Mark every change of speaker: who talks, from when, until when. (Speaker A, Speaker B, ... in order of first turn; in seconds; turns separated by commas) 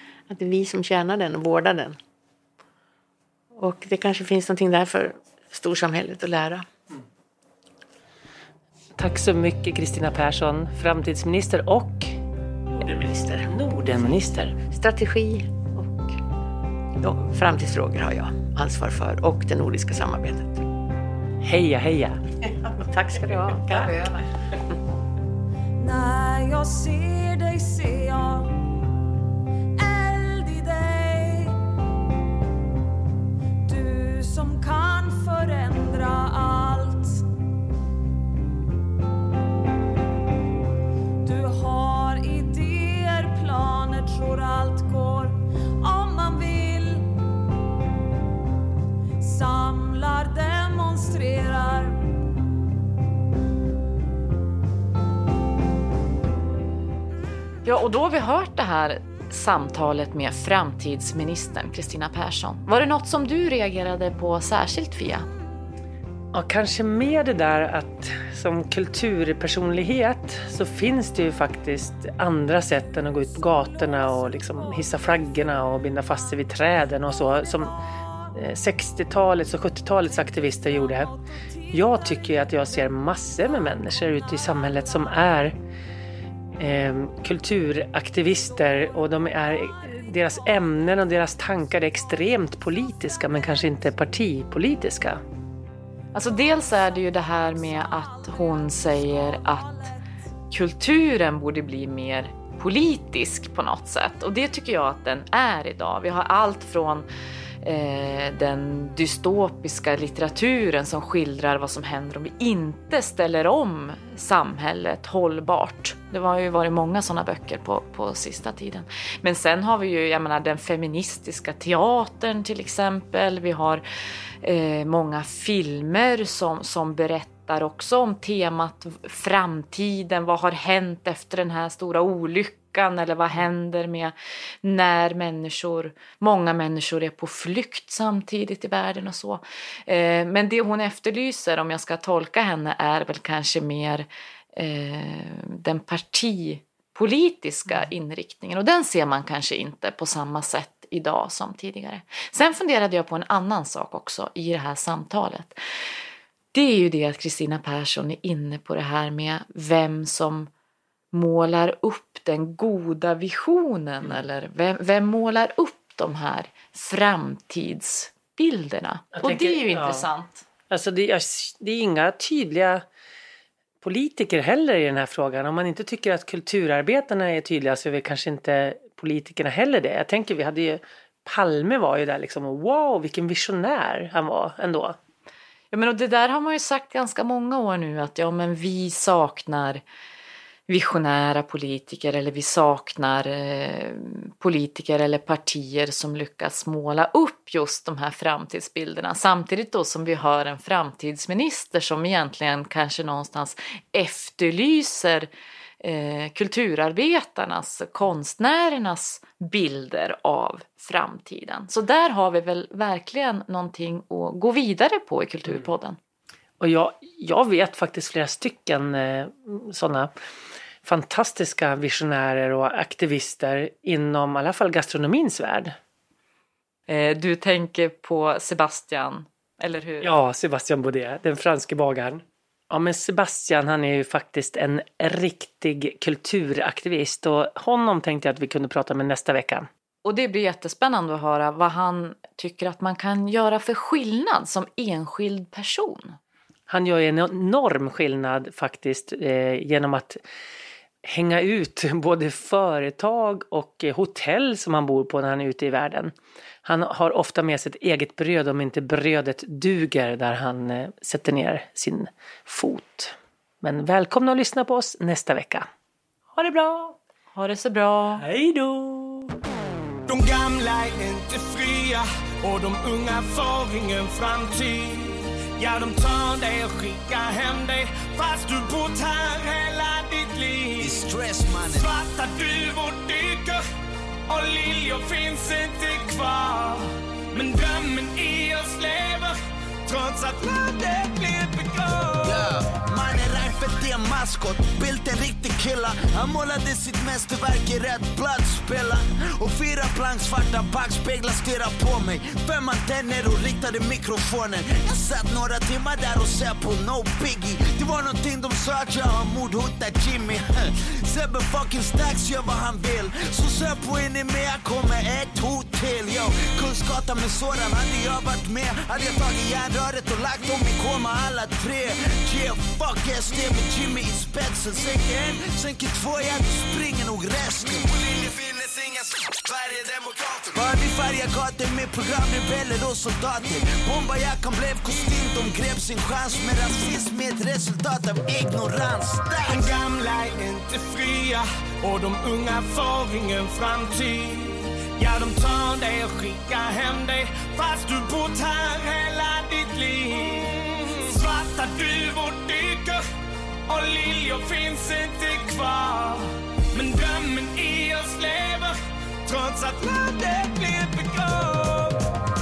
Speaker A: 0.3-1.9, Speaker A: 3.5-6.7, Speaker B: 9.0-12.1, Speaker A: 12.7-13.5, Speaker B: 13.5-14.5, Speaker A: 14.7-16.2, Speaker A: 17.0-20.6, Speaker B: 21.4-22.2, Speaker A: 22.4-24.3, Speaker C: 25.8-28.5, Speaker C: 29.8-31.6, Speaker C: 33.6-37.2, Speaker C: 41.2-47.1, Speaker C: 49.2-52.0, Speaker D: 57.6-65.3, Speaker B: 66.3-77.7, Speaker C: 73.4-75.1, Speaker B: 78.3-81.1, Speaker C: 80.2-81.2, Speaker B: 81.7-85.5, Speaker C: 81.8-82.9, Speaker C: 84.0-85.3, Speaker B: 86.6-95.2, Speaker D: 96.1-99.9, Speaker D: 100.5-107.1, Speaker D: 107.6-123.8, Speaker D: 124.4-155.6, Speaker D: 156.5-160.5, Speaker D: 161.1-170.4, Speaker B: 169.1-170.1, Speaker B: 170.7-172.8, Speaker B: 173.8-185.0, Speaker D: 185.7-189.8, Speaker D: 190.7-205.3, Speaker D: 205.8-216.0, Speaker B: 216.6-220.1, Speaker B: 220.8-225.8, Speaker D: 226.9-230.1, Speaker B: 230.0-239.7, Speaker D: 240.0-246.2, Speaker B: 246.7-250.2, Speaker B: 251.0-256.1, Speaker B: 256.6-265.6, Speaker B: 266.4-266.9, Speaker D: 267.3-268.2, Speaker B: 268.2-269.3, Speaker E: 270.1-281.0, Speaker F: 280.8-281.9, Speaker E: 281.7-283.6, Speaker E: 284.3-292.4, Speaker F: 292.2-339.7, Speaker E: 339.4-353.0, Speaker E: 353.7-362.1